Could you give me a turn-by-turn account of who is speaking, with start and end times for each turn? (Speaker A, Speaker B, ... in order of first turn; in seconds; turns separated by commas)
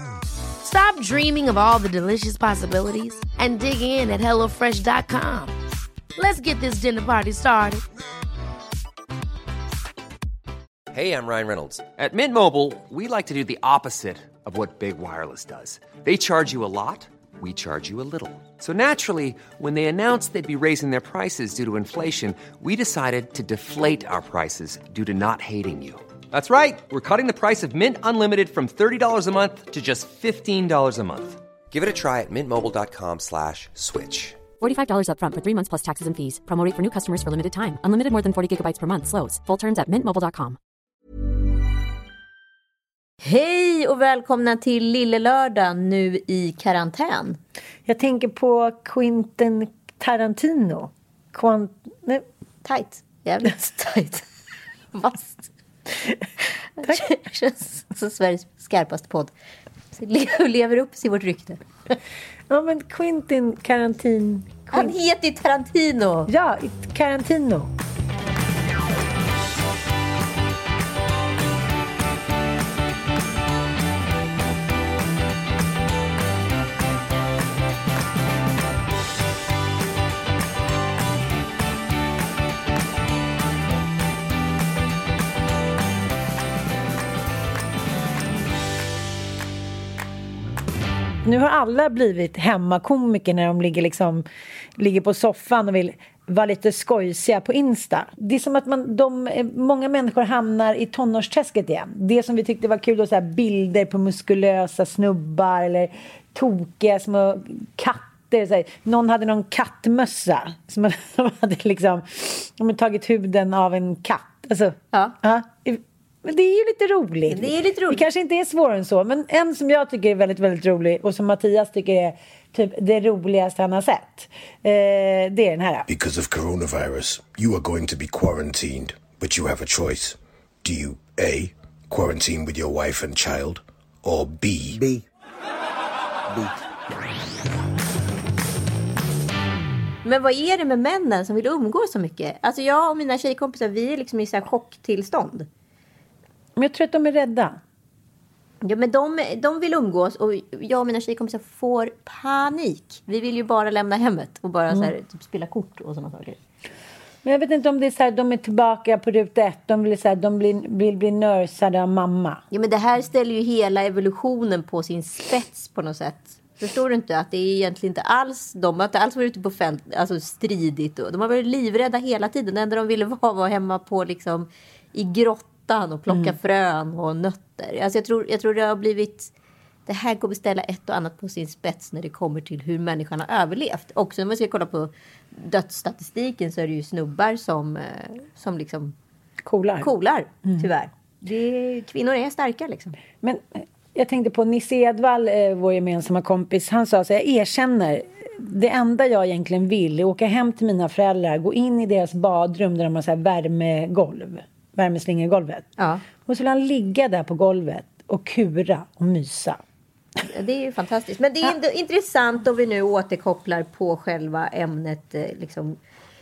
Speaker A: 0.6-5.5, Speaker A: 6.2-7.8, Speaker B: 10.9-34.4, Speaker C: 34.6-40.6, Speaker D: 43.2-47.4, Speaker E: 47.9-52.2, Speaker D: 52.6-54.2, Speaker D: 54.9-55.5, Speaker D: 56.8-59.3, Speaker D: 59.9-61.6, Speaker E: 62.5-65.0, Speaker D: 64.7-66.3, Speaker E: 66.3-67.7, Speaker E: 91.2-94.2, Speaker E: 94.8-125.9, Speaker D: 117.3-118.0, Speaker F: 125.9-134.8, Speaker D: 140.0-145.5, Speaker E: 146.6-147.6, Speaker D: 148.6-156.4, Speaker E: 157.2-162.4, Speaker D: 162.5-179.3, Speaker E: 176.1-176.3, Speaker D: 179.9-188.9, Speaker E: 189.5-189.9, Speaker D: 189.8-193.0, Speaker E: 193.2-205.7, Speaker D: 205.8-206.0, Speaker E: 206.3-209.6, Speaker D: 210.3-215.8